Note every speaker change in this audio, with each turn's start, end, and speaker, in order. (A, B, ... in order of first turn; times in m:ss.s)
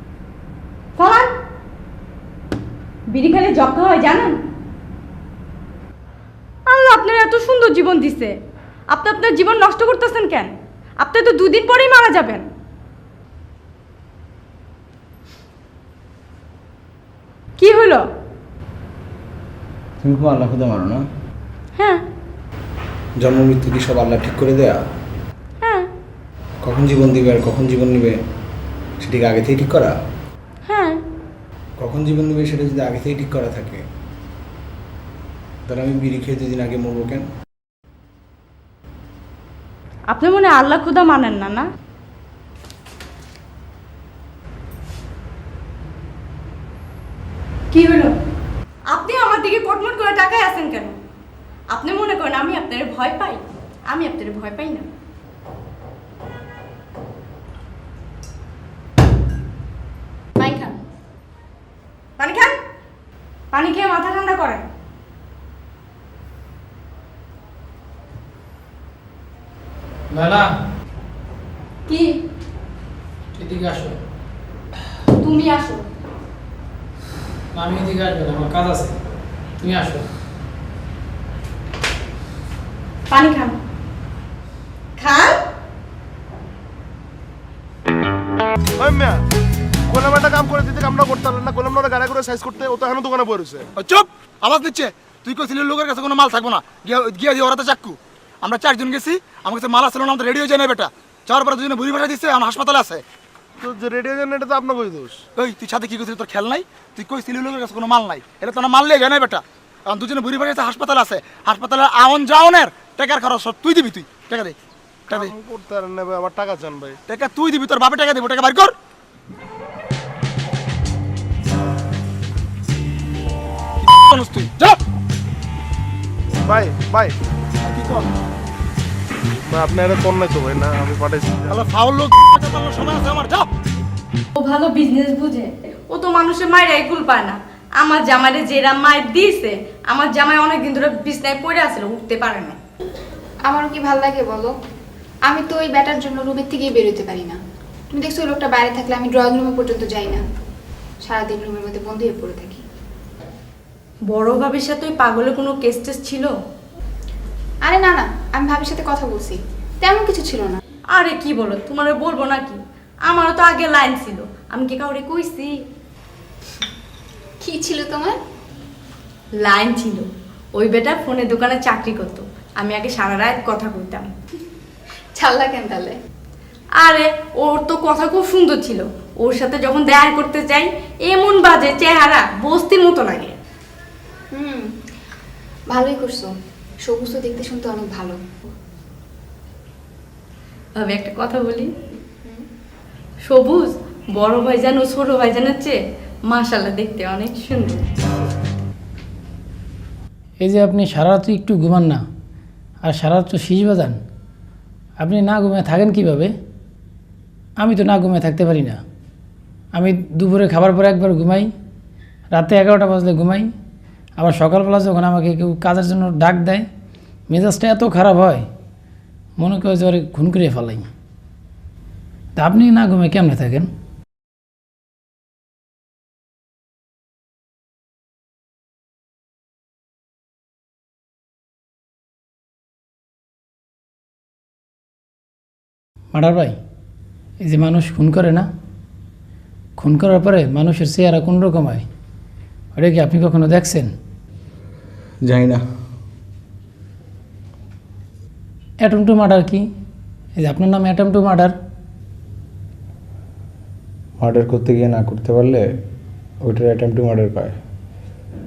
0:01.0-0:01.3 A
0:03.1-0:04.4 A
0:06.7-0:08.3 A
0:08.9-0:12.5 A
0:17.6-0:18.0 A
0:20.0-0:21.0 B
0:21.8-0:22.0 A
0:23.2-0:24.8 B
0:25.6-0:25.9 A
0:26.6-0:28.2 B
0:29.0-0:29.9 B
0:30.7-0:31.0 A
0:31.8-0:33.8 B
0:35.6-0:37.3 B
0:40.1-0:41.7 A
0:47.7-0:48.1 A
0:48.9-0:51.0 A
0:51.7-0:54.9 A
1:00.4-1:00.8 C
1:02.2-1:02.6 A
1:03.5-1:04.6 A
1:10.1-1:10.5 D
1:11.9-1:12.2 A
1:13.3-1:14.0 D
1:15.2-1:15.9 A
1:17.5-1:19.0 D
1:19.6-1:20.1 D
1:23.1-1:23.5 A
1:25.0-1:25.4 A
1:28.8-1:29.2 E
1:29.9-1:33.7 E
1:33.8-1:43.0 F
1:43.6-1:45.2 E
1:45.4-1:54.5 F
1:55.1-1:57.0 E
1:57.1-1:58.7 F
2:03.8-2:04.8 F
2:06.4-2:07.1 E
2:07.6-2:08.0 F
2:09.5-2:11.5 E
2:11.5-2:13.4 F
2:14.3-2:22.6 A
2:23.4-2:24.5 C
2:25.2-2:27.4 C
2:27.9-2:30.2 C
2:31.0-2:32.6 C
2:34.1-2:36.3 A
2:37.6-2:40.6 C
2:40.9-2:45.5 A
2:47.4-2:48.2 C
2:49.4-2:54.1 A
2:55.2-2:55.9 C
2:56.8-3:03.4 A
3:04.3-3:04.6 C
3:05.7-3:06.3 C
3:06.8-3:08.2 C
3:10.8-3:11.7 A
3:13.2-3:15.8 A
3:16.3-3:17.8 A
3:20.4-3:22.0 D
3:22.8-3:24.0 D
3:25.0-3:26.3 D
3:27.6-3:28.8 D
3:29.7-3:31.5 D
3:32.3-3:33.5 D
3:34.2-3:36.6 D
3:37.3-3:38.4 D
3:39.4-3:40.9 D
3:42.4-3:43.7 D
3:56.1-3:56.6 D
3:57.4-3:58.5 D
3:59.8-4:01.8 D
4:02.7-4:03.9 D
4:05.2-4:05.6 B
4:08.8-4:09.6 D
4:10.4-4:11.6 D
4:14.2-4:15.6 B
4:16.4-4:17.6 B